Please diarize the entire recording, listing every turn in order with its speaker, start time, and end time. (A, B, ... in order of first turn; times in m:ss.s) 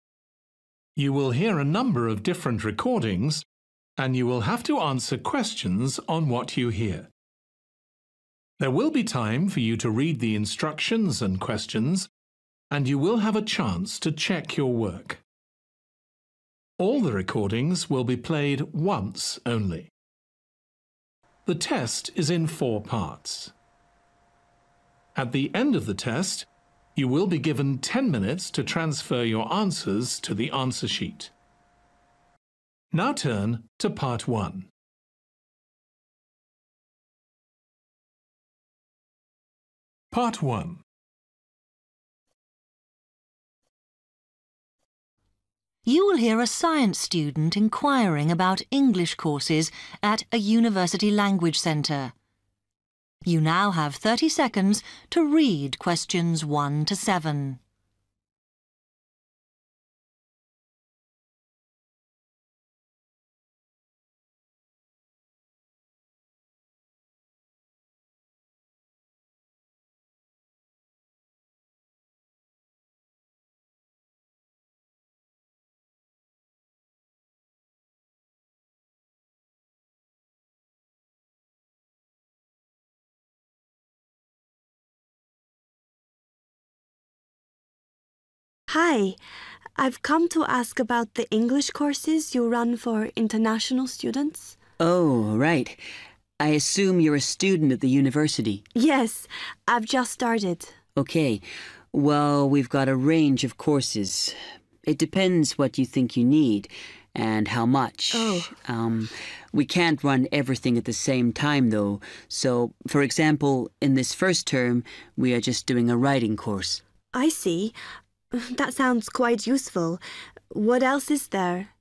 0:01.0-0:03.4 A
0:04.0-0:07.1 A
0:08.6-0:12.1 A
0:12.7-0:15.2 A
0:16.8-0:19.9 A
0:21.4-0:23.5 A
0:25.1-0:31.3 A
0:32.9-0:34.7 A
0:40.1-0:40.8 A
0:45.8-0:52.1 B
0:53.2-0:57.6 B
1:28.7-1:29.2 C
1:29.8-1:34.5 C
1:34.8-1:35.8 D
1:36.4-1:38.6 D
1:38.8-1:40.7 C
1:41.0-1:56.8 D
1:48.1-1:48.5 C
1:57.1-1:57.8 C
1:58.3-2:01.7 C